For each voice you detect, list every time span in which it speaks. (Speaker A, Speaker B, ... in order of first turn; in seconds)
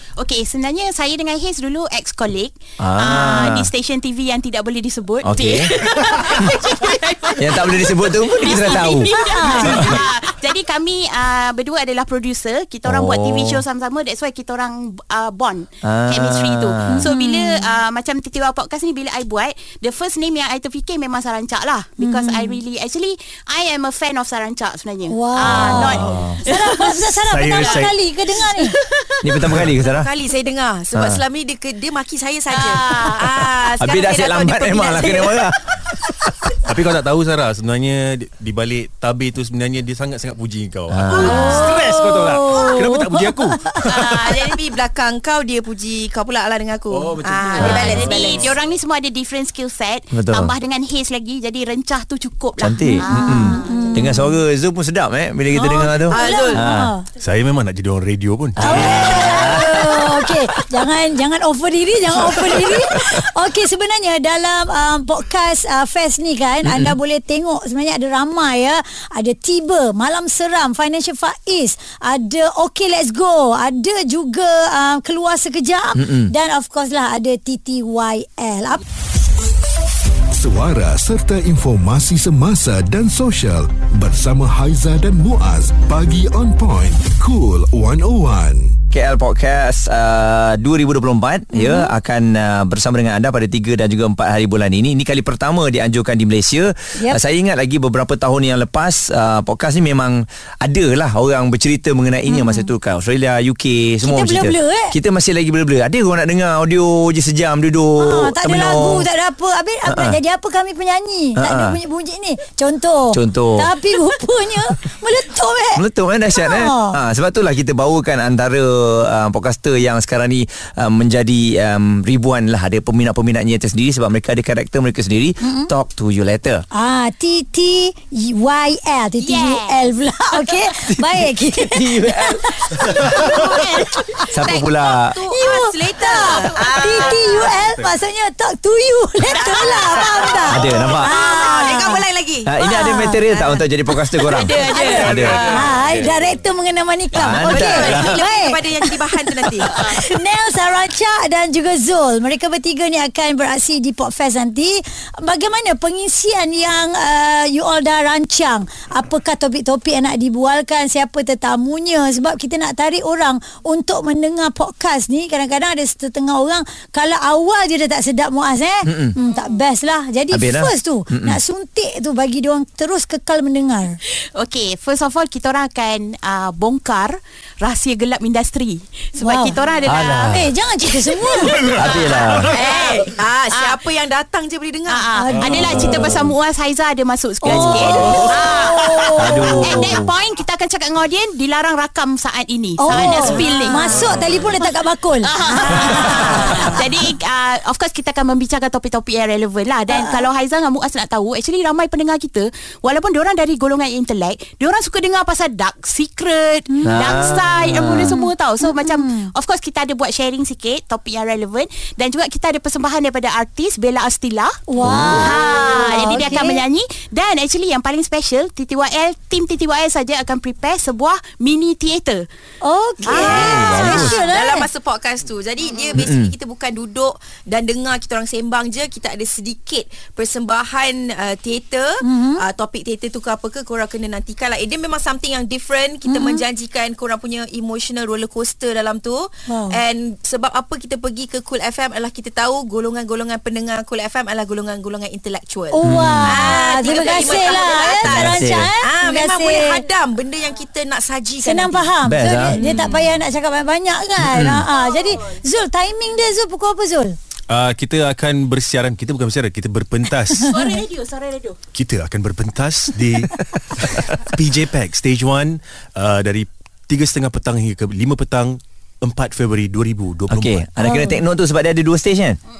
Speaker A: 0.2-27.9, 32.5-33.2, 41.2-41.8, 43.8-44.5, 47.5-54.1, 129.2-129.9, 133.1-134.1, 136.0-137.5, 144.2-145.7, 174.3-180.3, 181.5-183.8, 184.8-194.7, 195.2-214.6, 215.2-222.2, 223.1-224.2, 246.9-247.7, 260.5-261.6
Speaker B: 2.8-3.5, 5.2-5.7, 7.4-9.1, 12.9-13.5, 15.9-17.0, 25.5-26.4, 29.2-30.1, 30.9-31.2, 33.8-36.5, 40.9-41.2, 50.1-50.5, 52.7-56.9, 88.9-109.1, 109.9-110.2, 111.4-111.8, 113.1-113.7, 115.8-126.6, 130.8-132.5, 134.3-135.2, 140.6-141.1, 142.5-144.6, 147.1-148.1, 168.9-169.1, 170.3-171.4, 179.9-180.4, 181.8-182.5, 189.3-190.0, 214.9-215.3, 226.0-226.3, 245.9-246.4, 248.2-248.7, 252.1-252.7, 254.2-254.6, 270.3-272.4
Speaker C: 9.1-9.8, 16.9-17.7, 22.0-22.6, 25.1-28.8, 41.2-43.8, 52.8-54.4, 56.1-57.0, 58.6-78.8, 91.5-91.9, 102.3-102.7, 104.0-105.0, 108.0-117.0, 125.4-125.7, 126.7-134.2, 135.3-142.0, 142.6-143.2, 144.8-173.9, 179.2-182.0, 185.1-186.2, 187.4-190.0, 192.8-196.8, 199.9-200.2, 206.7-207.1, 208.0-209.3, 214.7-216.6, 222.6-224.7, 232.0-232.4, 236.1-236.4, 239.5-239.8, 245.7-249.8, 251.4-257.1, 270.8-271.2
Speaker D: 27.1-27.9, 29.4-29.8, 36.6-44.1, 46.9-48.5, 57.2-60.4, 62.2-62.8, 132.7-133.3, 136.6-137.9, 144.9-146.4, 185.4-186.1, 193.2-194.5, 195.9-196.5, 223.6-224.1, 257.5-260.6, 261.7-270.7
Speaker E: 29.8-35.4, 44.1-48.5, 55.5-56.7, 133.0-137.3, 139.3-143.7, 144.3-145.7, 147.4-149.8, 182.5-185.0, 223.0-251.9, 252.5-253.1
Speaker F: 80.3-88.7